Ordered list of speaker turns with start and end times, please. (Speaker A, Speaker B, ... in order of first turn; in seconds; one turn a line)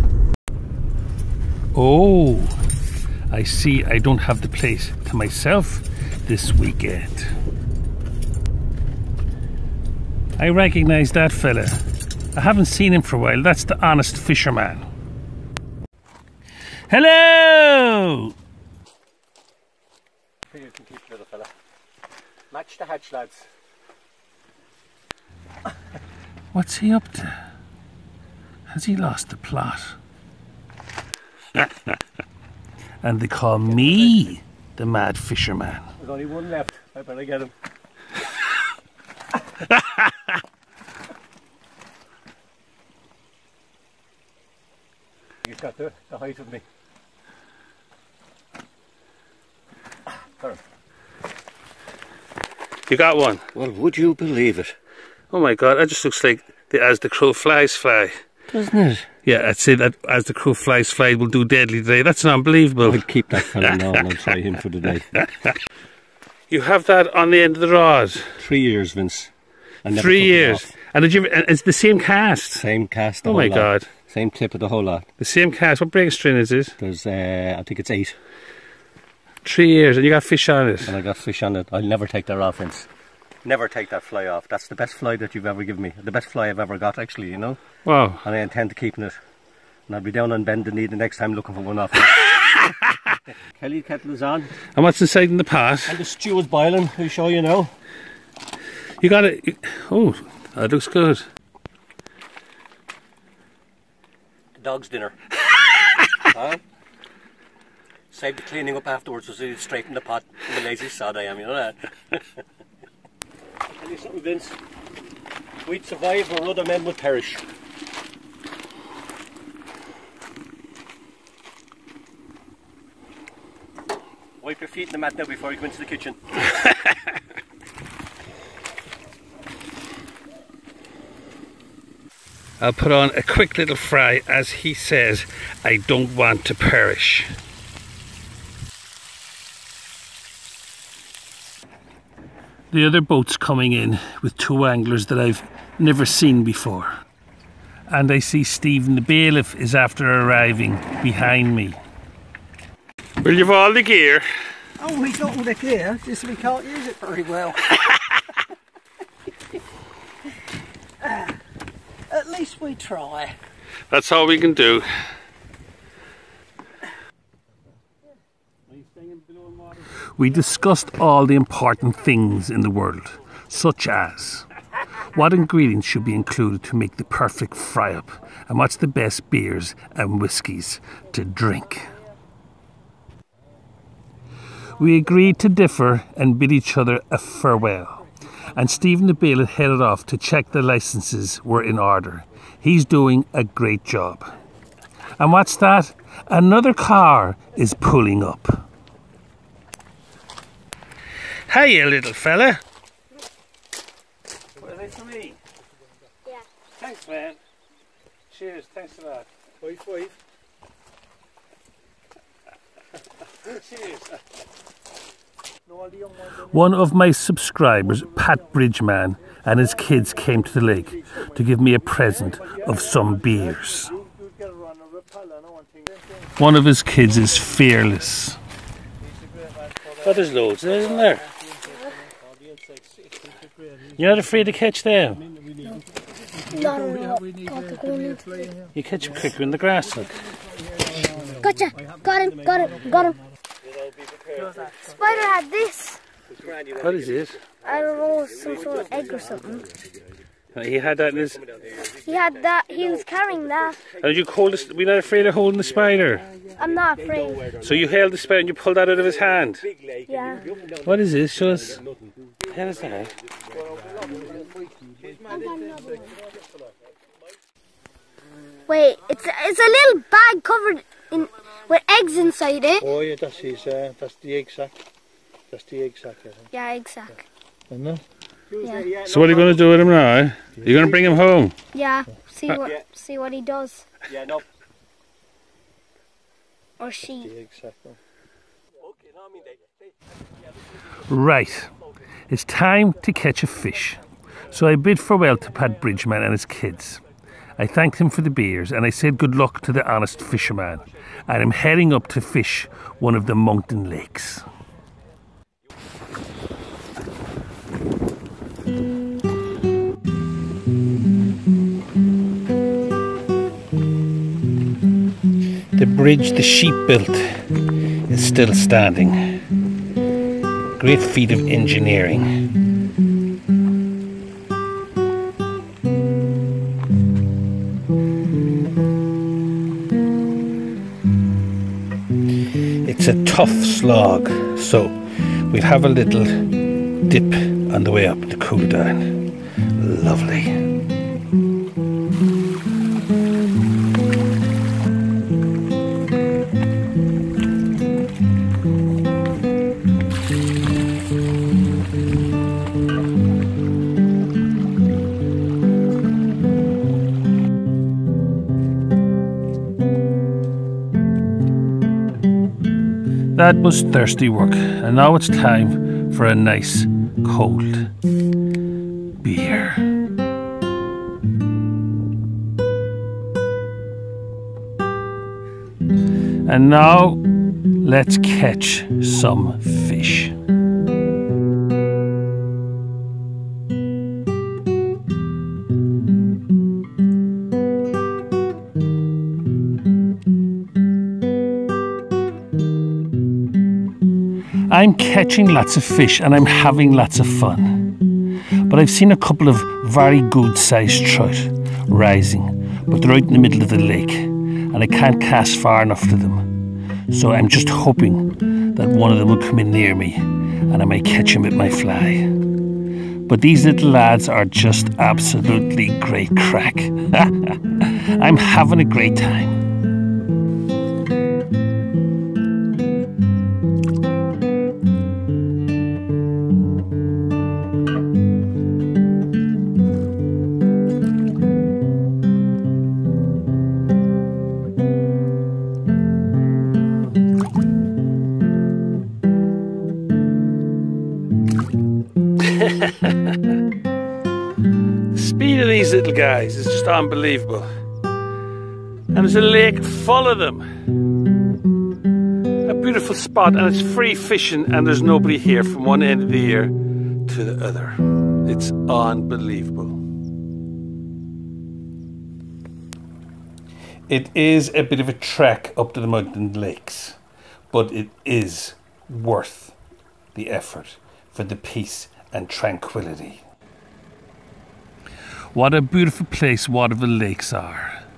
Speaker A: 1.7-2.6
Speaker A: 3.3-7.3
Speaker A: 10.4-11.8
Speaker A: 12.3-14.9
Speaker A: 16.9-18.3
Speaker B: 20.5-21.5
Speaker B: 22.5-23.4
Speaker A: 26.5-27.4
Speaker A: 28.7-30.0
Speaker A: 33.0-35.9
Speaker B: 36.0-37.5
Speaker A: 39.7-40.0
Speaker B: 45.4-46.6
Speaker A: 52.9-53.5
Speaker B: 53.5-54.8
Speaker A: 55.3-58.2
Speaker B: 58.5-59.1
Speaker A: 59.2-64.0
Speaker B: 62.8-65.1
Speaker A: 65.1-65.5
Speaker A: 66.5-68.4
Speaker B: 68.4-69.3
Speaker B: 69.8-70.7
Speaker A: 69.9-72.7
Speaker B: 72.6-75.1
Speaker A: 73.2-73.9
Speaker A: 75.2-76.8
Speaker B: 76.8-78.2
Speaker A: 79.4-81.0
Speaker B: 80.8-82.9
Speaker B: 83.4-87.6
Speaker A: 87.8-88.2
Speaker B: 88.2-89.2
Speaker B: 89.9-92.3
Speaker A: 92.2-92.8
Speaker B: 93.4-94.5
Speaker A: 94.7-96.0
Speaker B: 95.9-97.7
Speaker A: 99.0-101.3
Speaker B: 104.6-105.2
Speaker B: 106.3-106.6
Speaker B: 108.1-112.3
Speaker B: 113.8-114.6
Speaker B: 115.6-117.4
Speaker B: 124.4-126.2
Speaker A: 132.6-137.3
Speaker A: 142.7-147.0
Speaker A: 147.9-151.8
Speaker A: 153.2-154.3
Speaker B: 154.8-157.6
Speaker A: 157.8-158.1
Speaker B: 162.1-163.3
Speaker A: 163.9-164.9
Speaker A: 169.0-169.4
Speaker A: 170.2-181.9
Speaker A: 184.7-194.3
Speaker A: 195.2-198.7
Speaker A: 201.5-202.6
Speaker A: 204.6-205.4
Speaker A: 206.8-207.4
Speaker A: 208.3-209.3
Speaker A: 213.4-214.1
Speaker A: 216.3-224.0
Speaker C: 224.0-226.0
Speaker A: 226.3-228.4
Speaker A: 230.0-231.3
Speaker B: 232.1-233.1
Speaker A: 233.9-235.3
Speaker D: 236.5-238.6
Speaker A: 238.8-240.2
Speaker D: 241.4-243.2
Speaker B: 243.6-244.9
Speaker D: 244.8-246.0
Speaker B: 246.3-249.4
Speaker A: 246.8-247.4
Speaker D: 247.6-249.7
Speaker A: 250.5-251.4
Speaker B: 251.5-252.0
Speaker D: 252.0-253.8
Speaker A: 254.0-256.3
Speaker D: 256.5-257.6
Speaker B: 257.1-257.9
Speaker A: 257.6-259.7
Speaker B: 259.7-262.1
Speaker D: 260.1-260.5
Speaker A: 260.8-261.8
Speaker A: 262.5-263.1
Speaker C: 263.8-264.5
Speaker D: 265.3-266.1
Speaker D: 268.7-272.9
Speaker C: 272.9-274.7
Speaker C: 275.5-276.3
Speaker D: 276.5-277.2
Speaker C: 277.7-278.0
Speaker B: 278.5-279.8
Speaker D: 278.6-278.9
Speaker A: 279.0-281.6
Speaker D: 281.7-283.9
Speaker B: 284.1-284.4
Speaker D: 286.8-287.3
Speaker C: 287.4-287.9
Speaker B: 289.0-289.6
Speaker A: 291.0-291.8
Speaker A: 292.3-297.0
Speaker A: 297.6-304.5
Speaker A: 315.7-317.6
Speaker A: 318.1-319.4
Speaker A: 320.8-322.4
Speaker A: 332.8-340.6
Speaker A: 363.3-367.9
Speaker A: 369.2-369.9
Speaker A: 376.4-377.2
Speaker A: 377.8-380.4
Speaker A: 394.7-398.0
Speaker A: 398.6-406.5
Speaker A: 407.1-412.4
Speaker A: 413.2-419.6
Speaker A: 442.4-443.4
Speaker A: 445.1-447.7
Speaker A: 449.1-450.7
Speaker A: 452.6-460.0
Speaker A: 464.1-467.2
Speaker A: 467.7-469.8
Speaker A: 470.3-473.4
Speaker A: 475.5-478.0